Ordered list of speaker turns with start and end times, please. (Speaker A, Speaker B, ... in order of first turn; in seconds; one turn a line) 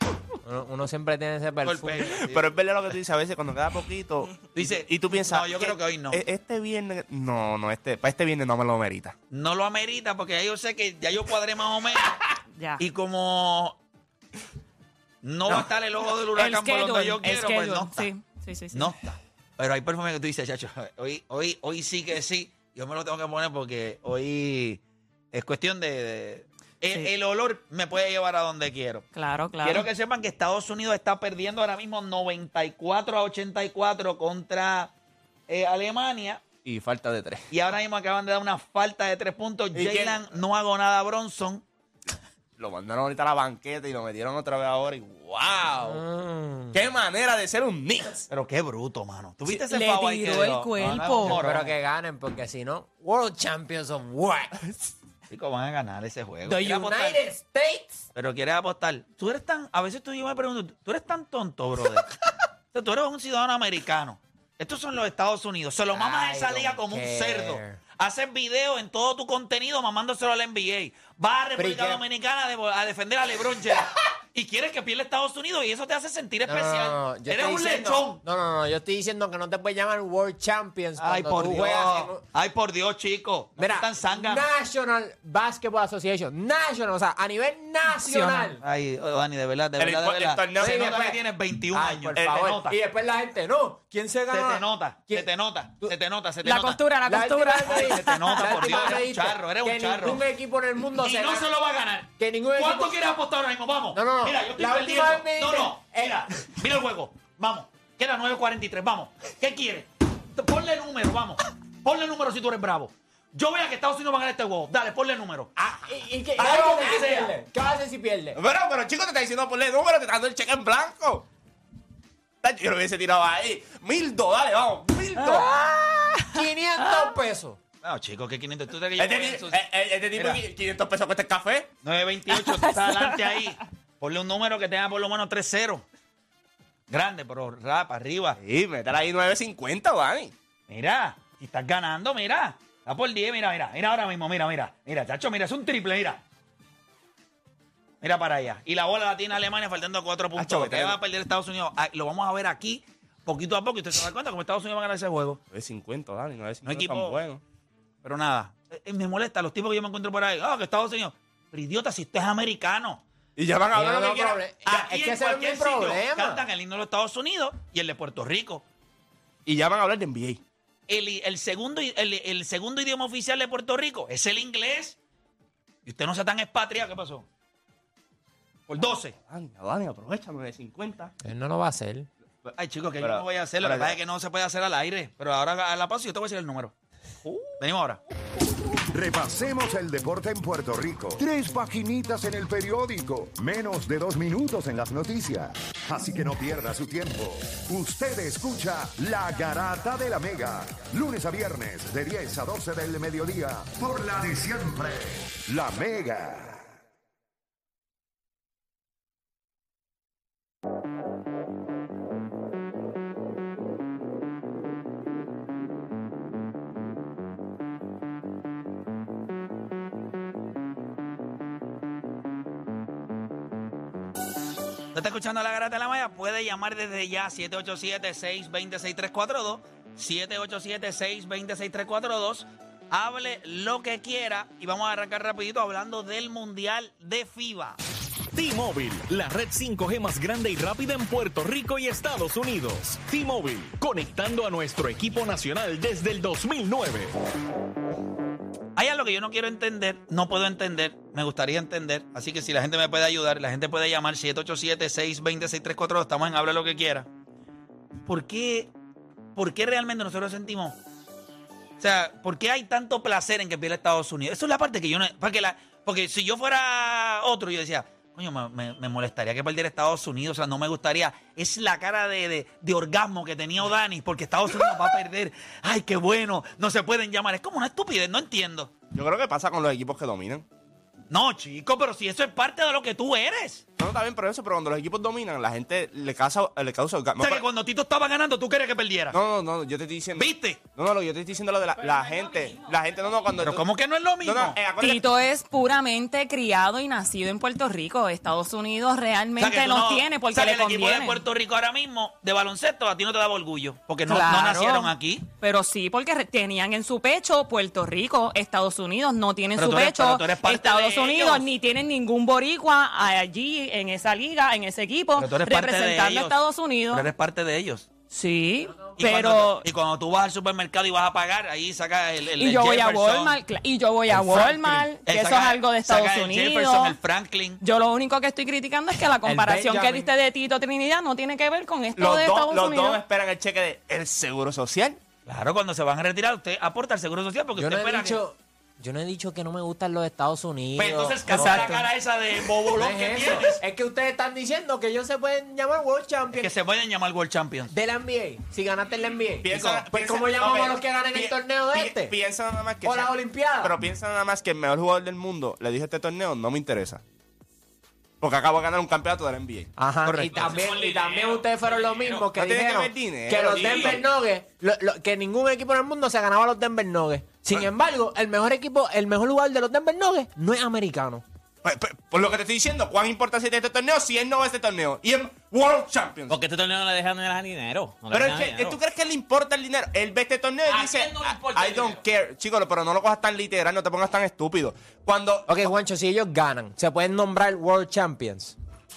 Speaker A: 0.4-2.2
Speaker B: 1.6-2.5
Speaker C: 2.2-9.2
Speaker B: 4.5-6.2
Speaker B: 9.3-12.2
Speaker D: 12.6-12.8
Speaker B: 12.8-13.8
Speaker B: 15.2-18.1
Speaker D: 16.4-18.9
Speaker B: 18.7-24.8
Speaker B: 25.3-29.1
Speaker D: 29.1-29.9
Speaker B: 29.6-34.9
Speaker B: 35.5-36.4
Speaker C: 36.6-37.5
Speaker B: 37.5-41.6
Speaker C: 39.7-40.2
Speaker C: 42.6-46.0
Speaker A: 45.8-46.8
Speaker C: 46.7-48.3
Speaker B: 48.3-51.7
Speaker D: 49.5-51.4
Speaker A: 51.2-54.6
Speaker B: 55.3-57.2
Speaker A: 56.4-58.0
Speaker B: 58.1-62.1
Speaker B: 62.7-78.2
Speaker A: 65.9-67.8
Speaker A: 71.6-72.0
Speaker A: 76.5-82.2
Speaker B: 81.0-84.5
Speaker A: 83.6-88.6
Speaker D: 87.9-88.5
Speaker B: 88.6-92.8
Speaker C: 89.8-90.8
Speaker A: 90.6-91.2
Speaker A: 91.7-95.3
Speaker B: 94.3-96.8
Speaker D: 96.4-99.0
Speaker A: 97.0-101.5
Speaker B: 97.6-100.2
Speaker B: 100.9-115.5
Speaker A: 102.2-102.9
Speaker A: 103.9-106.3
Speaker A: 115.5-118.4
Speaker B: 116.4-117.3
Speaker C: 118.3-121.2
Speaker C: 122.4-125.5
Speaker A: 125.5-127.6
Speaker B: 127.8-130.4
Speaker C: 129.0-131.7
Speaker B: 131.8-135.8
Speaker D: 132.3-133.4
Speaker B: 136.9-138.4
Speaker C: 138.4-140.3
Speaker B: 140.7-146.2
Speaker B: 148.0-155.4
Speaker C: 150.3-151.0
Speaker C: 155.5-157.4
Speaker B: 156.6-157.2
Speaker B: 158.0-163.0
Speaker C: 163.4-164.4
Speaker A: 163.7-166.4
Speaker B: 164.7-168.6
Speaker C: 169.4-170.4
Speaker B: 170.9-175.0
Speaker B: 175.8-177.2
Speaker B: 178.7-179.1
Speaker C: 178.8-181.1
Speaker A: 181.2-182.1
Speaker C: 182.4-183.9
Speaker B: 182.6-186.7
Speaker B: 187.6-188.0
Speaker E: 188.9-206.6
Speaker B: 224.9-237.8
Speaker F: 238.3-247.1
Speaker B: 248.8-257.1
Speaker B: 258.1-258.7
Speaker B: 259.4-260.8
Speaker B: 261.8-278.7
Speaker C: 278.9-280.4
Speaker B: 281.1-283.6
Speaker C: 283.8-287.4
Speaker B: 287.2-289.2
Speaker C: 289.1-293.6
Speaker B: 290.1-290.6
Speaker G: 291.8-293.3
Speaker B: 293.4-294.6
Speaker C: 294.2-295.1
Speaker D: 294.8-301.2
Speaker B: 299.4-305.3
Speaker A: 304.1-304.9
Speaker D: 305.4-317.1
Speaker B: 309.6-311.5
Speaker B: 315.1-316.4
Speaker B: 316.9-317.9
Speaker D: 318.1-319.7
Speaker B: 319.0-323.4
Speaker D: 322.4-327.0
Speaker B: 324.1-327.6
Speaker D: 327.6-333.0
Speaker A: 329.2-330.1
Speaker C: 331.9-335.0
Speaker B: 335.2-338.2
Speaker A: 337.6-341.9
Speaker B: 340.8-343.6
Speaker A: 342.7-346.5
Speaker B: 346.4-347.7
Speaker A: 347.7-352.1
Speaker C: 349.4-357.0
Speaker B: 349.5-349.8
Speaker A: 352.8-353.7
Speaker C: 358.2-360.5
Speaker A: 359.8-371.2
Speaker G: 360.2-362.3
Speaker C: 362.3-364.0
Speaker G: 363.5-363.9
Speaker C: 371.6-376.4
Speaker G: 376.3-378.8
Speaker C: 378.1-385.5
Speaker G: 380.6-382.0
Speaker A: 385.5-388.6